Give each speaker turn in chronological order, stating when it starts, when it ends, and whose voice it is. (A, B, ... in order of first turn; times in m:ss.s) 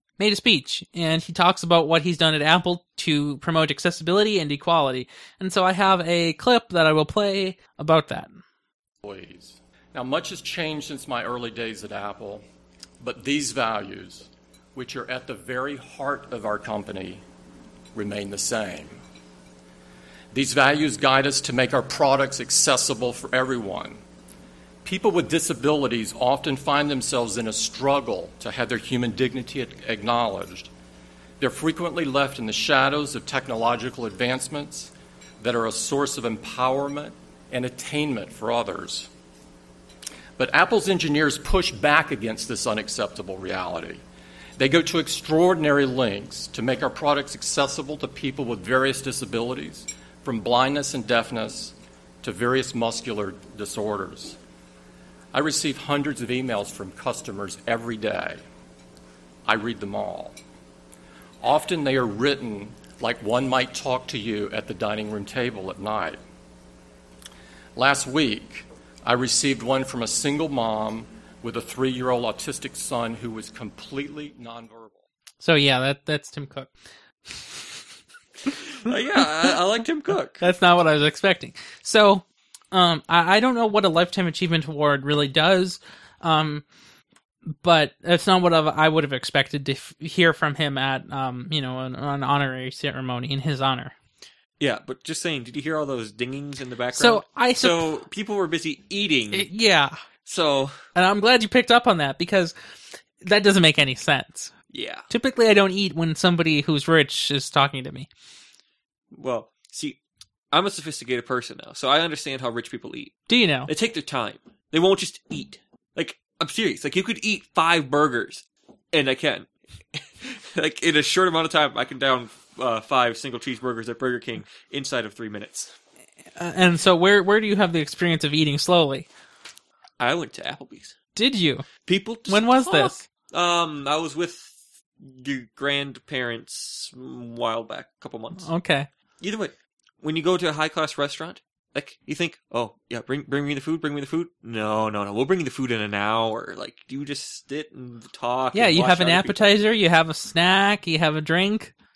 0:00.2-0:08.4 A
0:09.0-0:12.4 B
0:13.0-0:17.2 B
0:17.9-0:19.0 B
0:20.3-0:24.0 B
0:24.8-0:30.7 B
0:31.4-0:39.1 B
0:40.4-0:44.0 B
0:44.6-0:54.4 B
0:55.3-0:58.4 B
0:59.5-1:00.4 B
1:01.4-1:06.2 B
1:07.8-1:15.0 B
1:15.4-1:16.7 A
1:18.7-1:20.4 C
1:19.2-1:19.5 A
1:20.4-1:26.6 A
1:27.5-1:34.0 A
1:34.6-1:39.5 C
1:36.9-1:37.9 A
1:39.3-1:40.0 A
1:40.2-1:40.8 C
1:41.0-1:42.6 A
1:43.2-1:44.5 A
1:44.7-1:45.1 C
1:45.1-1:48.1 A
1:49.1-1:50.0 C
1:50.5-1:53.2 C
1:53.3-1:53.7 A
1:53.7-2:05.8 C
2:06.4-2:09.1 A
2:10.0-2:11.0 C
2:11.2-2:11.7 A
2:11.8-2:18.5 C
2:12.3-2:13.0 A
2:18.4-2:18.9 A
2:19.2-2:29.6 C
2:28.5-2:31.7 A